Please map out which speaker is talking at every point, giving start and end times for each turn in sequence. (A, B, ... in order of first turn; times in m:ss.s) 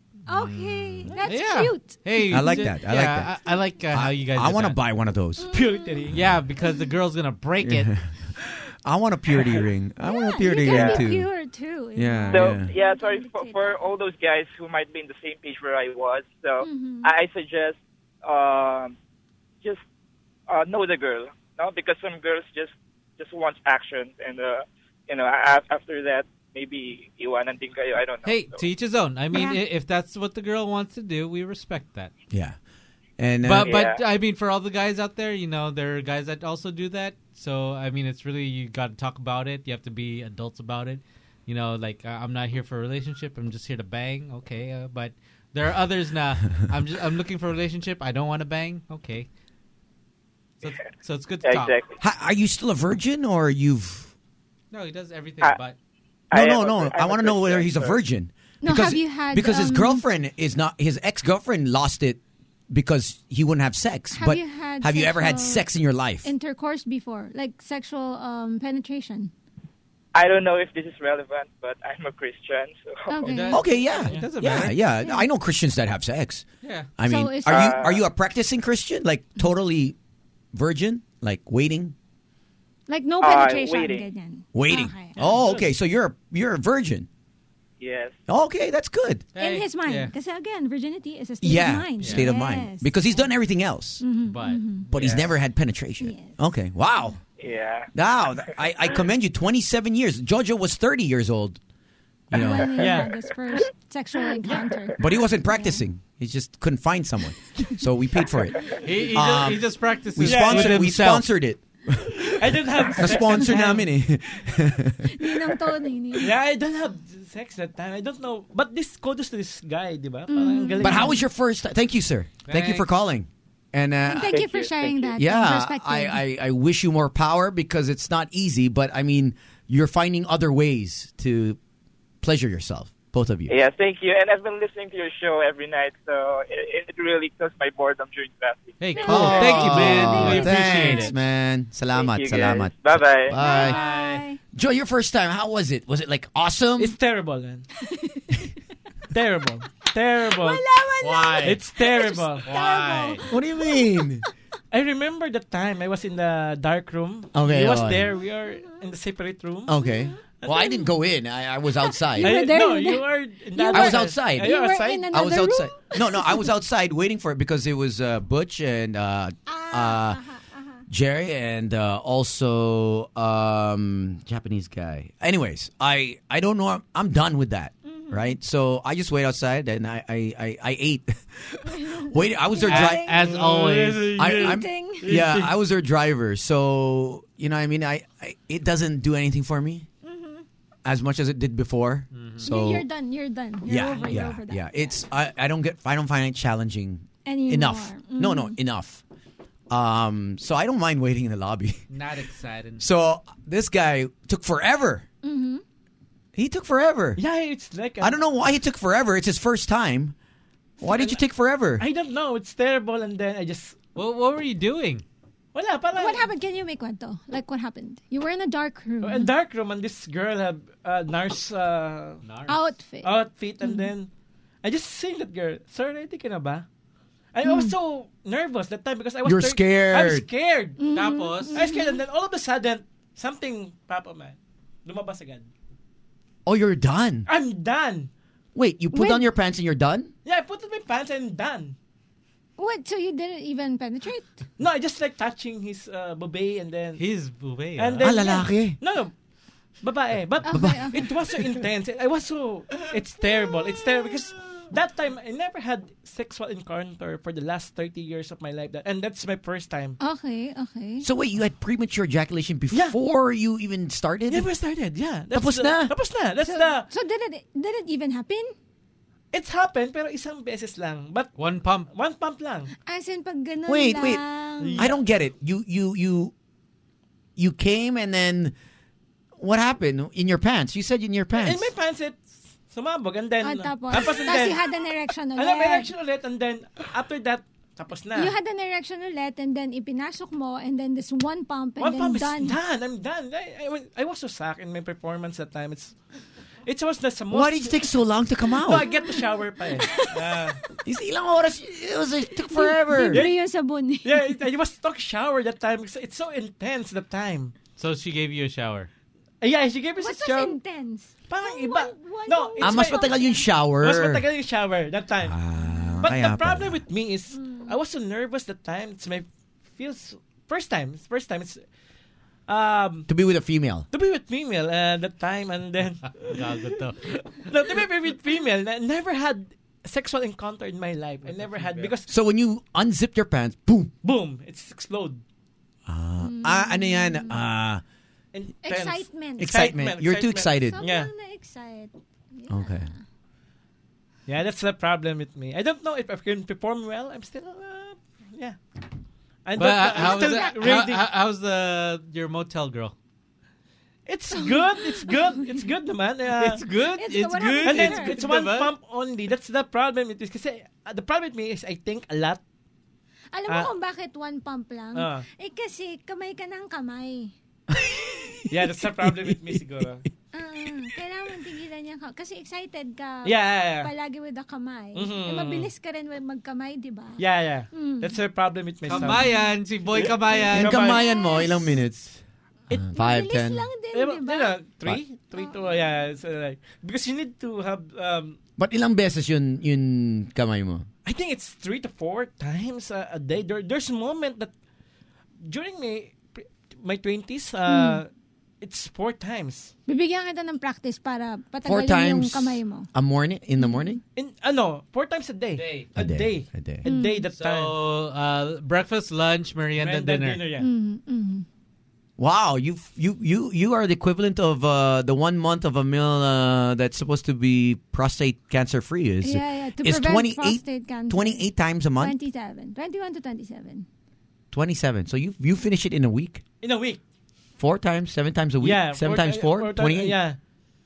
0:00.3-0:02.7 A
0:00.3-0:04.8 B
0:02.3-0:03.3 C
0:03.9-0:05.5 C
0:05.4-0:06.0 A
0:05.5-0:06.2 D
0:06.1-0:08.0 B
0:07.6-0:11.3 C
0:10.0-0:13.9 A
0:10.6-0:11.0 E
0:11.9-0:12.7 C
0:12.3-0:19.0 E
0:16.6-0:17.1 A
0:20.5-0:28.6 E
0:28.2-0:32.1 B
0:29.3-0:29.6 A
0:32.3-0:32.6 C
0:33.2-0:33.7 C
0:33.4-0:49.3 B
0:33.6-0:34.0 E
0:50.6-0:51.8 B
0:51.4-0:51.9 E
0:52.0-0:54.1 C
0:54.7-0:55.7 B
0:56.3-0:58.0 E
0:56.3-1:06.3 C
0:58.6-1:00.0 A
1:04.1-1:05.6 A
1:06.2-1:09.3 A
1:10.1-1:13.3 E
1:13.1-1:13.9 A
1:13.2-1:14.7 B
1:13.5-1:16.4 C
1:15.0-1:15.2 A
1:16.6-1:16.9 B
1:17.0-1:20.0 C
1:17.0-1:17.8 A
1:17.5-1:18.0 E
1:20.5-1:21.9 C
1:22.9-1:25.3 A
1:23.2-1:24.1 E
1:24.5-1:27.1 C
1:25.3-1:25.6 D
1:27.8-1:28.2 E
1:28.3-1:29.2 C
1:29.3-1:30.1 B
1:29.4-1:33.2 A
1:31.4-1:34.0 C
1:34.0-1:34.9 A
1:34.3-1:34.8 B
1:34.9-1:37.2 C
1:36.0-1:36.4 A
1:37.4-1:37.9 E
1:37.9-1:41.6 C
1:42.3-1:43.0 C
1:42.3-1:45.8 A
1:42.8-1:43.1 D
1:45.0-1:55.4 C
1:48.8-1:51.3 B
1:50.2-1:50.8 D
1:52.4-1:53.9 D
1:55.0-1:56.3 A
1:56.2-2:01.2 D
2:00.3-2:01.2 A
2:00.8-2:04.6 C
2:02.5-2:02.9 B
2:04.0-2:06.2 A
2:04.3-2:04.9 E
2:05.1-2:11.6 C
2:12.2-2:13.5 C
2:13.5-2:18.8 E
2:18.8-2:21.1 B
2:18.9-2:21.1 A
2:19.0-2:23.8 C
2:21.9-2:23.3 E
2:23.4-2:24.4 A
2:23.5-2:24.2 B
2:24.5-2:26.9 C
2:26.8-2:27.6 D
2:27.8-2:28.5 A
2:29.1-2:30.6 D
2:30.2-2:34.0 A
2:31.0-2:31.6 B
2:31.4-2:32.5 D
2:32.4-2:33.2 B
2:33.3-2:34.2 C
2:34.7-2:39.7 D
2:37.3-2:38.2 C
2:39.7-2:42.4 C
2:39.8-2:40.8 A
2:40.4-2:40.7 D
2:41.8-2:46.4 A
2:42.2-2:45.1 D
2:43.7-2:50.2 C
2:49.5-2:50.8 A
2:50.9-3:03.1 C
2:57.8-2:58.4 A
3:01.6-3:03.2 A
3:02.6-3:04.2 B
3:03.2-3:05.5 D
3:04.2-3:09.9 C
3:04.3-3:05.1 A
3:10.0-3:10.4 A
3:10.8-3:12.8 C
3:12.1-3:12.4 B
3:12.4-3:15.0 A
3:13.7-3:19.0 C
3:13.9-3:14.2 B
3:17.2-3:18.6 A
3:19.7-3:21.8 C
3:21.9-3:22.8 B
3:22.8-3:25.0 C
3:25.2-3:25.6 A
3:26.3-3:27.2 C
3:27.2-3:28.2 D
3:28.0-3:30.1 C
3:30.8-3:31.8 C
3:30.8-3:31.2 D
3:31.8-3:33.8 D
3:33.9-3:35.0 B
3:35.5-3:36.3 D
3:35.9-3:39.3 A
3:39.0-3:42.2 D
3:42.2-3:42.6 B
3:42.5-3:43.9 A
3:43.0-3:44.1 D
3:44.6-3:46.6 D
3:47.3-3:50.8 D
3:47.4-3:47.7 A
3:49.2-3:50.3 C
3:50.8-3:52.0 A
3:50.9-3:51.6 B
3:51.5-3:55.5 D
3:56.4-3:57.3 C
3:57.2-3:58.1 D
3:58.5-4:00.1 C
3:58.9-3:59.2 A
4:00.2-4:01.7 D
4:02.6-4:04.4 A
4:04.6-4:07.0 D
4:07.0-4:08.2 B
4:07.8-4:09.1 D
4:08.0-4:08.8 C
4:09.8-4:20.0 D
4:10.4-4:11.0 A
4:10.5-4:11.1 C
4:20.0-4:21.1 A
4:21.0-4:24.5 C
4:24.3-4:26.9 D
4:25.3-4:25.9 C
4:26.4-4:28.5 A
4:29.3-4:31.3 D
4:31.4-4:31.9 B
4:31.8-4:32.7 D
4:32.8-4:34.8 A
4:33.7-4:34.2 C
4:34.6-4:35.0 D
4:34.8-4:36.3 C
4:37.4-4:38.5 C
4:39.4-4:41.7 C
4:41.3-4:44.7 D
4:43.4-4:45.9 A
4:45.3-4:48.3 D
4:48.1-4:52.6 A
4:51.8-4:56.0 D
4:56.6-4:57.8 D
4:57.3-4:58.9 C
4:58.5-5:00.6 D
4:58.9-4:59.2 A
5:00.8-5:03.2 C
5:02.4-5:04.4 A
5:03.1-5:03.4 D
5:04.0-5:07.5 D
5:07.8-5:08.9 B
5:09.4-5:10.6 D
5:10.0-5:13.5 A
5:11.3-5:13.2 D
5:12.6-5:14.2 C
5:13.8-5:15.4 D
5:15.2-5:16.8 C
5:15.6-5:16.0 A
5:16.0-5:21.6 D
5:17.3-5:17.8 A
5:22.5-5:23.1 D
5:23.1-5:23.9 C
5:23.9-5:32.1 D
5:26.0-5:27.2 B
5:31.2-5:31.9 B
5:32.1-5:33.9 C
5:34.0-5:35.2 D
5:35.8-5:37.8 C
5:36.2-5:37.4 A
5:38.3-5:41.1 D
5:38.6-5:39.6 A
5:39.4-5:40.8 C
5:40.7-5:43.0 A
5:42.5-5:42.9 C
5:44.3-5:48.6 D
5:49.4-5:51.1 D
5:49.6-5:52.9 B
5:50.0-5:50.8 A
5:54.1-5:56.6 D
5:54.3-5:55.1 A
5:56.4-5:58.7 B
5:57.0-5:58.2 A
5:57.6-6:02.4 D
6:03.3-6:07.3 A
6:04.9-6:05.2 D
6:07.7-6:09.6 C
6:08.5-6:10.0 D
6:10.3-6:18.2 A
6:13.2-6:13.9 D
6:14.9-6:15.7 D
6:17.2-6:21.0 D
6:18.9-6:20.9 B
6:19.0-6:19.5 A
6:20.5-6:23.7 C
6:20.8-6:21.8 A
6:22.9-6:24.6 A
6:23.9-6:28.4 D
6:25.3-6:25.8 A
6:28.6-6:30.9 C
6:31.0-6:34.5 D
6:35.4-6:38.1 D
6:37.6-6:38.0 A
6:38.6-6:39.7 D
6:39.8-6:42.9 A
6:41.6-6:44.0 C
6:43.6-6:44.0 A
6:44.1-6:47.8 D
6:45.5-6:46.0 B
6:46.0-6:46.8 C
6:46.8-6:47.3 A
6:47.3-6:50.4 B
6:49.7-6:50.7 D
6:50.6-6:51.4 A
6:52.2-7:02.1 C
6:59.2-7:03.9 A
7:04.5-7:06.4 C
7:06.6-7:07.0 D
7:07.6-7:10.2 C
7:08.6-7:10.4 D